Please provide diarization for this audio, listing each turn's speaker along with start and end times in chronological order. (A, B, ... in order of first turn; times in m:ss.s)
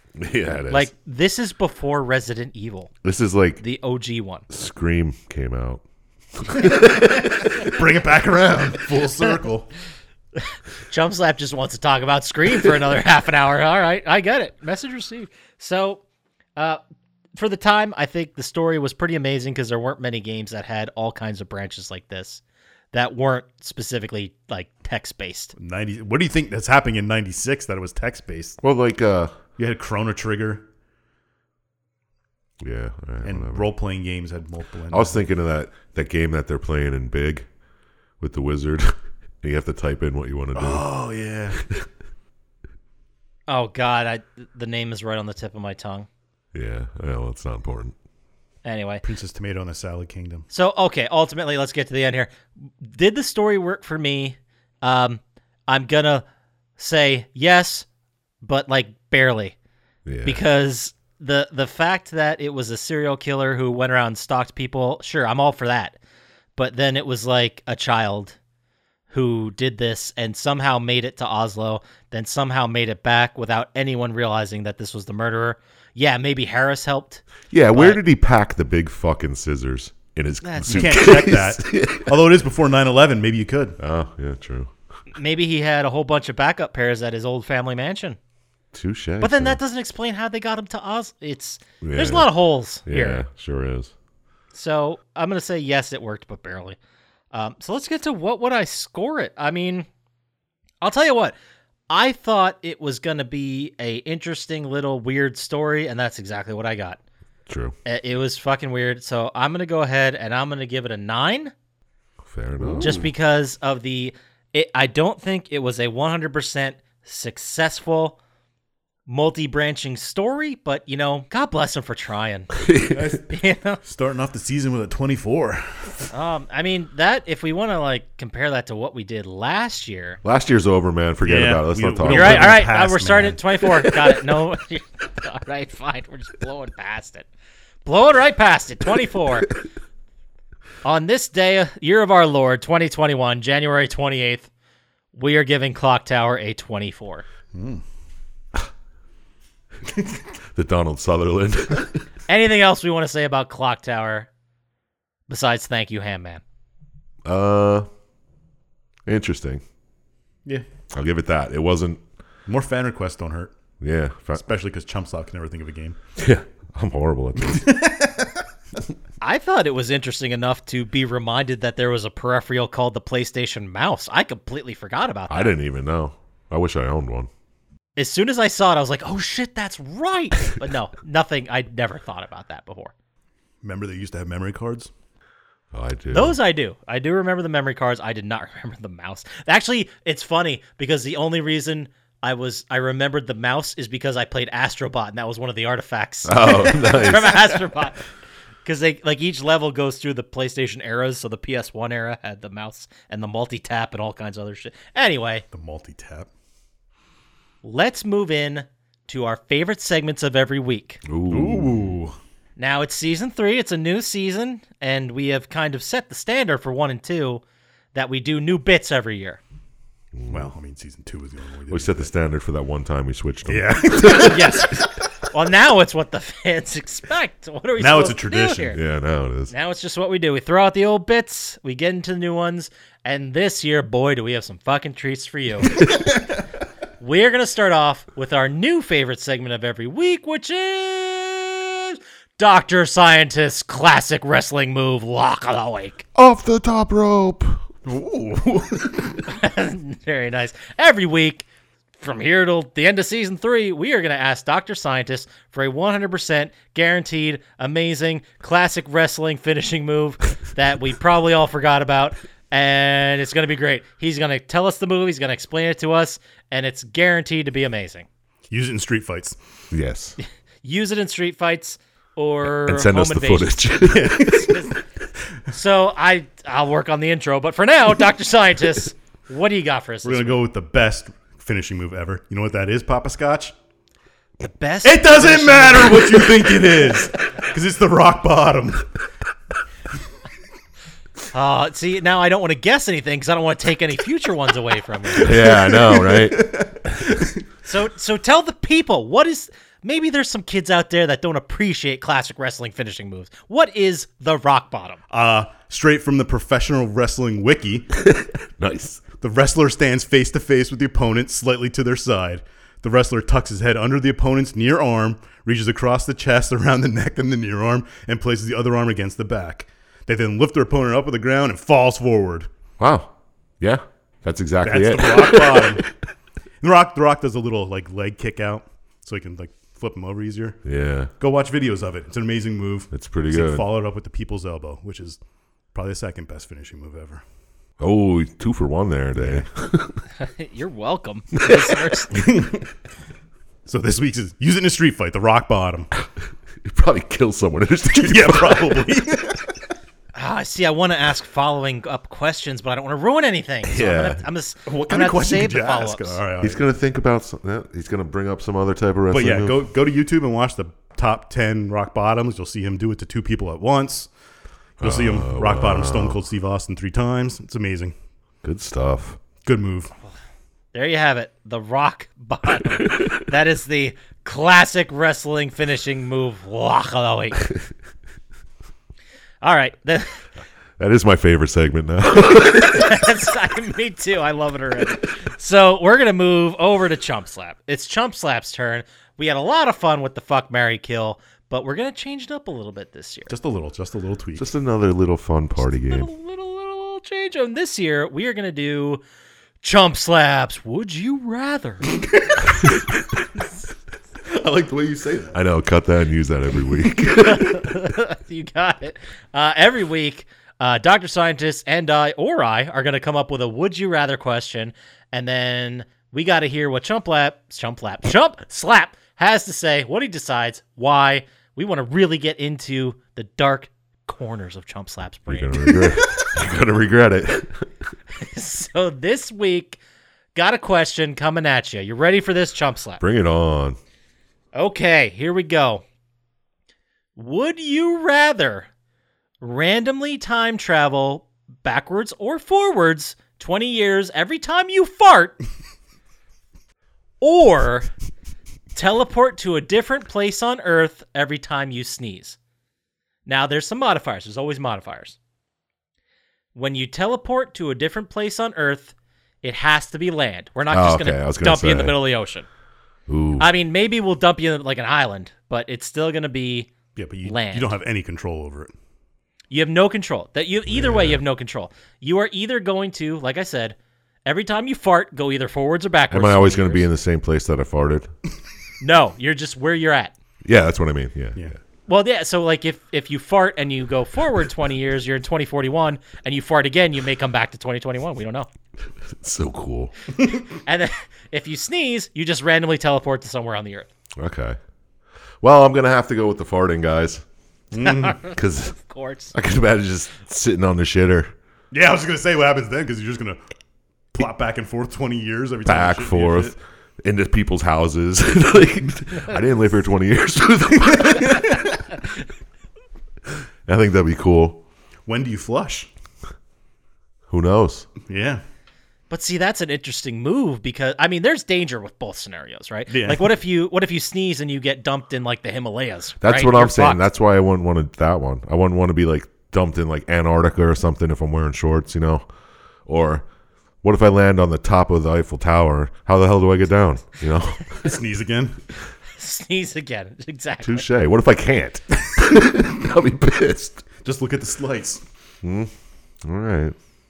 0:00.2-0:00.9 A
0:00.7-0:02.9 B
0:03.0-0:03.6 A
0:03.6-0:04.4 B
0:04.5-0:05.8 A
0:06.4-0:07.8 A
0:07.5-0:09.7 C
0:10.4-0:16.0 B
0:17.4-0:22.4 B
0:22.9-0:25.5 B
0:25.6-0:28.6 C
0:28.6-0:29.4 A
0:29.6-0:30.7 C
0:32.6-0:33.7 A
0:33.2-0:35.2 C
0:34.9-0:37.5 A
0:38.2-0:40.9 A
0:40.6-0:41.6 C
0:41.6-0:41.9 A
0:43.5-0:46.1 B
0:46.5-0:48.0 A
0:48.6-0:49.0 B
0:49.0-0:50.5 C
0:50.5-0:56.2 B
0:56.8-0:57.9 B
0:58.4-0:59.6 B
1:00.1-1:00.4 A
1:00.2-1:06.0 B
1:06.6-1:08.4 B
1:09.1-1:18.0 B
1:17.5-1:22.3 A
1:20.4-1:21.2 B
1:20.7-1:23.8 C
1:23.8-1:24.7 A
1:25.1-1:28.2 B
1:28.7-1:29.6 A
1:29.2-1:33.2 B
1:31.8-1:32.3 A
1:32.9-1:33.9 A
1:34.5-1:36.8 B
1:37.3-1:39.9 B
1:40.8-1:41.4 B
1:41.9-1:47.0 B
1:47.5-1:47.8 A
1:47.9-1:51.5 B
1:52.2-1:53.1 A
1:52.8-1:58.2 B
1:59.1-2:03.8 B
2:02.6-2:03.2 A
2:03.8-2:06.1 C
2:06.1-2:10.2 B
2:10.2-2:12.6 A
2:11.2-2:13.4 C
2:12.1-2:17.3 B
2:17.8-2:19.6 B
2:20.8-2:24.5 B
2:25.1-2:27.2 B
2:27.5-2:27.8 C
2:30.5-2:32.0 A
2:32.3-2:34.3 B
2:35.3-2:36.4 B
2:37.3-2:37.9 A
2:39.1-2:39.6 A
2:40.9-2:42.0 A
2:42.5-2:43.5 C
2:43.8-2:44.4 A
2:44.3-2:46.0 C
2:46.2-2:47.7 A
2:47.5-2:48.3 C
2:49.2-2:55.5 B
2:55.3-2:57.3 A
2:58.0-3:02.9 B
3:03.6-3:04.9 C
3:05.7-3:06.4 A
3:06.1-3:18.1 B
3:16.2-3:17.6 A
3:18.6-3:25.4 B
3:25.5-3:26.3 C
3:27.6-3:31.0 B
3:31.0-3:31.9 A
3:31.3-3:32.2 C
3:32.6-3:37.4 B
3:37.9-3:39.4 B
3:40.2-3:40.5 A
3:40.3-3:42.1 C
3:41.7-3:44.6 A
3:43.5-3:44.7 C
3:44.2-3:48.8 B
3:47.8-3:48.8 C
3:48.7-3:49.5 A
3:49.5-3:56.0 B
3:57.0-4:06.1 B
4:06.2-4:07.8 A
4:07.8-4:09.2 C
4:09.3-4:11.4 B
4:12.0-4:28.1 B
4:28.5-4:29.4 C
4:29.7-4:30.2 A
4:30.6-4:34.8 B
4:32.4-4:34.3 A
4:33.8-4:34.7 C
4:35.5-4:40.4 B
4:40.0-4:43.6 C
4:44.4-4:46.5 B
4:44.8-4:48.9 C
4:51.3-4:55.4 B
4:55.1-4:57.4 C
4:55.2-4:56.6 A
4:57.6-5:05.0 B
5:05.1-5:07.9 C
5:08.0-5:09.0 A
5:09.2-5:22.5 C
5:22.8-5:25.8 A
5:24.6-5:25.8 C
5:26.6-5:30.6 C
5:30.6-5:31.1 A
5:31.2-5:35.2 C
5:32.9-5:33.7 A
5:35.7-5:37.2 C
5:37.8-5:40.0 A
5:39.2-5:39.5 C
5:40.2-5:42.4 B
5:41.4-5:42.0 A
5:42.1-5:42.6 C
5:43.7-5:45.9 C
5:46.6-5:48.8 A
5:47.9-5:49.6 C
5:50.2-5:56.2 B
5:53.7-5:54.3 A
5:54.7-5:56.7 C
5:56.4-5:59.6 A
5:59.1-6:04.1 C
6:04.8-6:07.9 C
6:04.8-6:06.2 A
6:08.4-6:09.2 A
6:09.4-6:09.9 C
6:10.7-6:17.5 B
6:19.4-6:20.2 B
6:20.8-6:23.1 A
6:22.6-6:33.3 B
6:33.3-6:34.5 C
6:34.4-6:36.1 A
6:35.6-6:39.0 B
6:39.6-6:41.9 B
6:42.0-6:43.0 C
6:44.2-6:45.4 C
6:45.3-6:47.7 A
6:47.1-7:05.8 B
7:05.3-7:07.7 A
7:08.2-7:09.8 B
7:10.4-7:13.0 B
7:13.0-7:13.8 A
7:14.5-7:15.8 B
7:17.2-7:18.7 B
7:19.4-7:25.4 B
7:27.2-7:27.9 B
7:28.8-7:32.4 B
7:33.3-7:35.2 B
7:36.6-7:42.5 B
7:40.7-7:42.0 A
7:43.1-7:43.5 A
7:43.4-7:46.7 B
7:47.0-7:48.7 C
7:47.2-7:47.8 B
7:49.5-7:56.9 B
7:50.7-7:51.2 A
7:56.1-7:58.1 A
7:58.8-8:00.1 B
8:00.4-8:01.5 A
8:01.9-8:08.5 B
8:09.0-8:09.9 A
8:10.2-8:10.5 C
8:10.5-8:13.9 B
8:14.2-8:14.6 A
8:15.4-8:17.2 A
8:17.7-8:18.2 C
8:17.8-8:19.3 B
8:18.3-8:18.8 A
8:19.3-8:21.3 A
8:21.7-8:23.4 C
8:24.1-8:26.6 C
8:25.7-8:31.9 A
8:31.1-8:31.5 C
8:33.7-8:34.6 A
8:35.1-8:35.9 C
8:37.3-8:37.9 A
8:38.1-8:38.4 C
8:39.1-8:47.0 B
8:42.9-8:43.3 C
8:46.2-8:52.2 A
8:52.9-8:53.3 A
8:53.8-8:57.9 A
8:57.8-8:58.6 C
8:59.2-9:00.9 B
9:00.6-9:03.8 A
9:04.0-9:05.0 C
9:05.4-9:05.7 A
9:06.2-9:06.8 A